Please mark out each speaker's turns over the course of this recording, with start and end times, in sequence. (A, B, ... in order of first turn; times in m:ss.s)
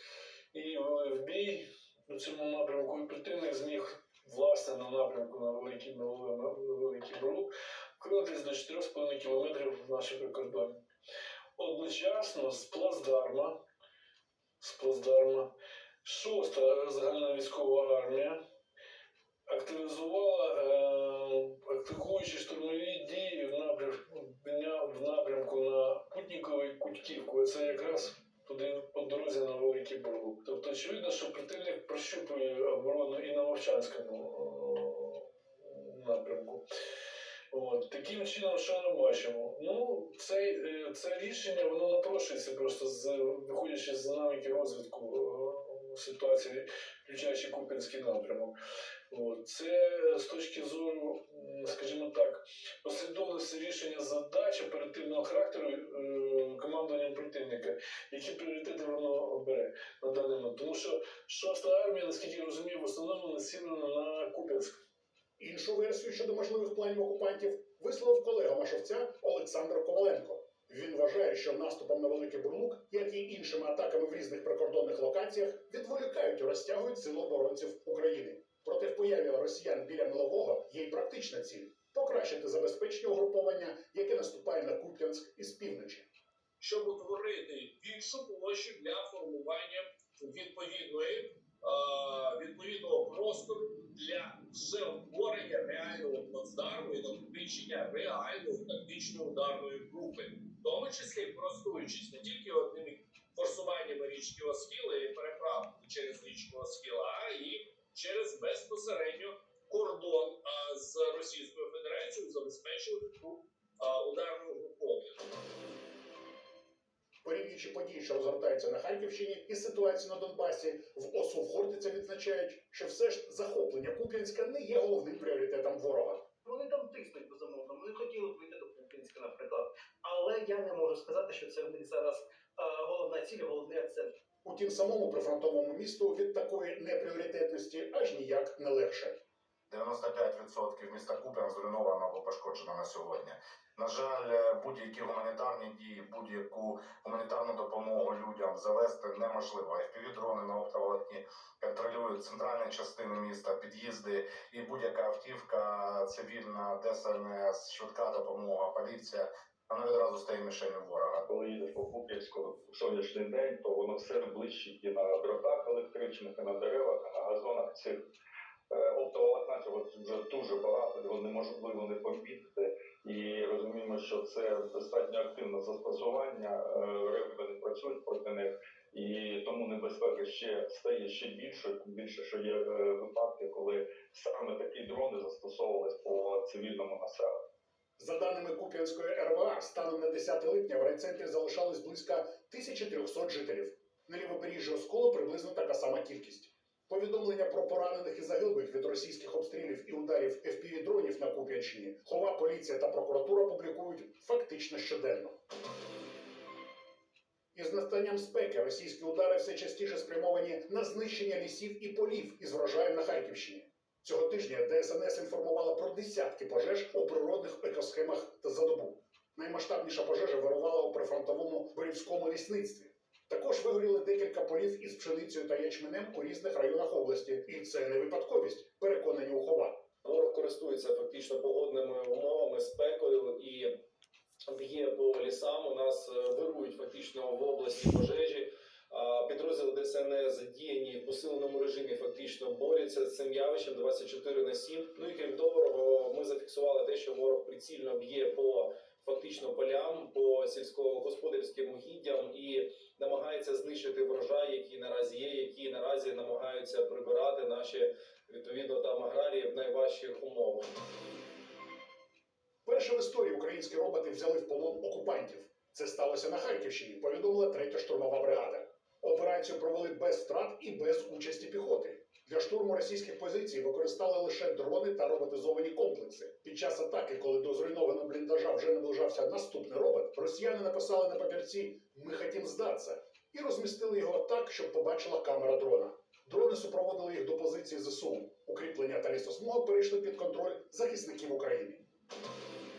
0:00.5-0:10.8 A
0:11.6-0:13.6 A
0:14.6-0:15.5 A
0:16.0-0:18.4 A
0:19.5-0:36.6 A
0:37.5-0:48.5 A
0:49.1-1:04.8 A
1:05.4-1:26.1 B
1:26.6-1:55.2 C
1:57.2-2:06.2 B
2:06.4-2:14.1 D
2:14.4-2:19.2 B
2:19.7-2:41.2 E
2:41.3-2:48.0 F
2:48.7-3:07.4 F
3:08.0-3:25.4 B
3:27.5-3:49.8 B
3:50.0-3:53.7 G
3:54.5-4:20.6 G
4:22.6-4:51.8 B